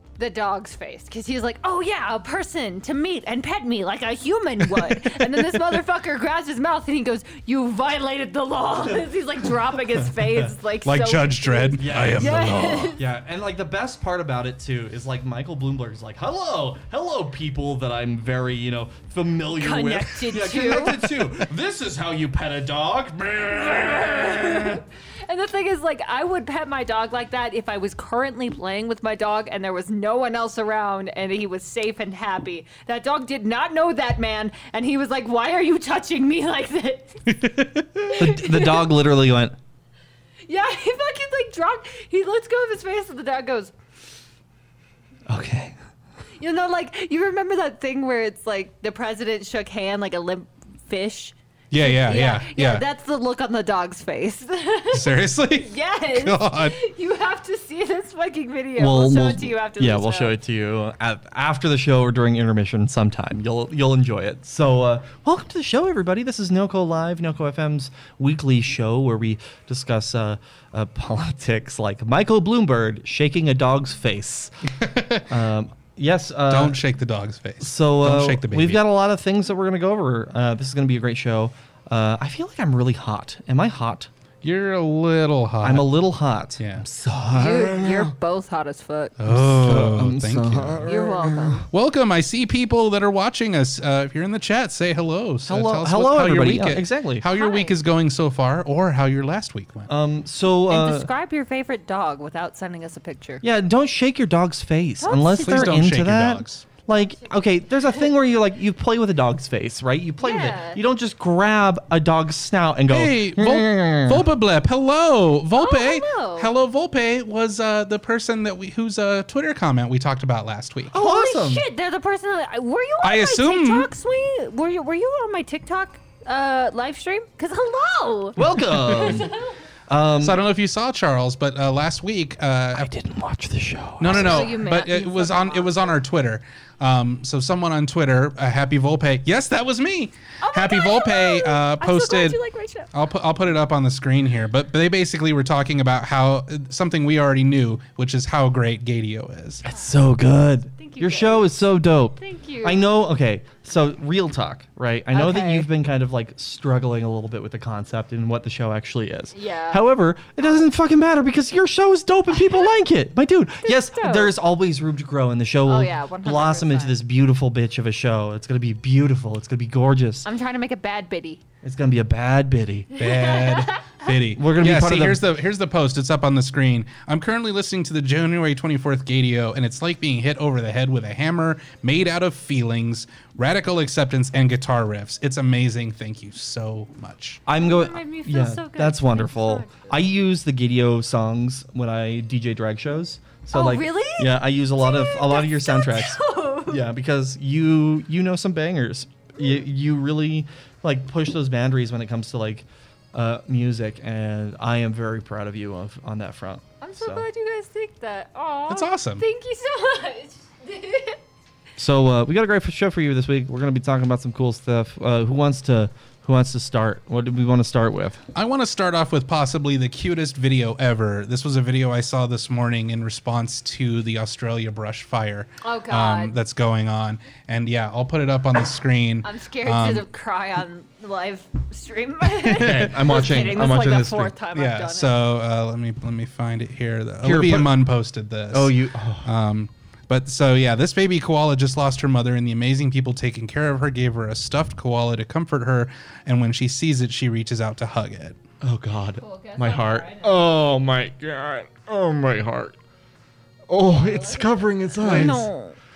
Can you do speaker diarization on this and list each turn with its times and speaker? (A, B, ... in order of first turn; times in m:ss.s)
0:00.2-0:13.0 A
0:10.8-0:13.0 B
0:11.8-0:24.8 C
0:19.6-0:21.2 A
0:23.8-0:37.2 A
0:38.0-0:39.6 C
0:38.2-0:38.8 A
0:40.4-0:43.7 A
0:45.3-0:45.7 C
0:46.4-1:00.4 A
0:51.7-0:52.8 B
0:54.9-0:56.8 B
0:58.8-1:14.5 C
1:14.8-1:15.3 B
1:15.2-1:16.8 C
1:16.5-1:18.8 B
1:17.6-1:24.1 C
1:24.4-1:25.9 B
1:25.6-1:28.1 C
1:26.6-1:26.8 B
1:27.3-1:29.2 A
1:29.2-1:30.8 B
1:29.3-1:31.6 C
1:30.8-1:31.6 A
1:31.7-1:39.9 B
1:35.4-1:37.3 C
1:37.3-1:37.8 A
1:39.9-1:41.1 C
1:40.7-1:43.4 A
1:43.4-1:54.2 C
1:45.0-1:45.8 A
1:45.4-1:46.6 B
1:46.9-1:47.2 A
1:50.2-1:50.8 A
1:52.9-2:01.0 B
1:55.6-1:56.5 A
2:00.9-2:01.6 C
2:00.9-2:09.5 A
2:03.0-2:03.9 B
2:08.4-2:09.3 C
2:08.4-2:09.2 B
2:09.9-2:10.4 C
2:10.2-2:12.9 B
2:12.7-2:14.5 C
2:14.0-2:22.4 B
2:14.1-2:16.0 A
2:20.4-2:22.9 A
2:22.9-2:29.6 B
2:29.6-2:50.3 C
2:30.8-2:32.9 A
2:35.1-2:35.7 A
2:39.3-2:39.8 A
2:40.4-2:40.6 A
2:42.4-2:42.7 A
2:43.6-2:44.3 A
2:45.6-2:46.9 A
2:50.2-2:51.4 A
2:51.6-2:52.9 C
2:53.0-2:54.1 A
2:53.0-3:07.4 B
2:54.3-2:55.2 C
3:07.4-3:27.2 C
3:07.6-3:10.0 A
3:13.5-3:16.8 A
3:26.8-3:31.2 A
3:28.7-3:29.2 B
3:31.8-3:38.2 C
3:38.3-3:50.1 B
3:45.6-3:46.4 A
3:49.2-3:55.2 A
3:52.4-3:54.4 C
3:54.5-4:08.4 B
3:57.2-3:57.8 C
3:58.5-3:59.3 C
4:08.6-4:12.8 C
4:09.2-4:10.4 A
4:13.7-4:15.5 C
4:13.8-4:15.8 A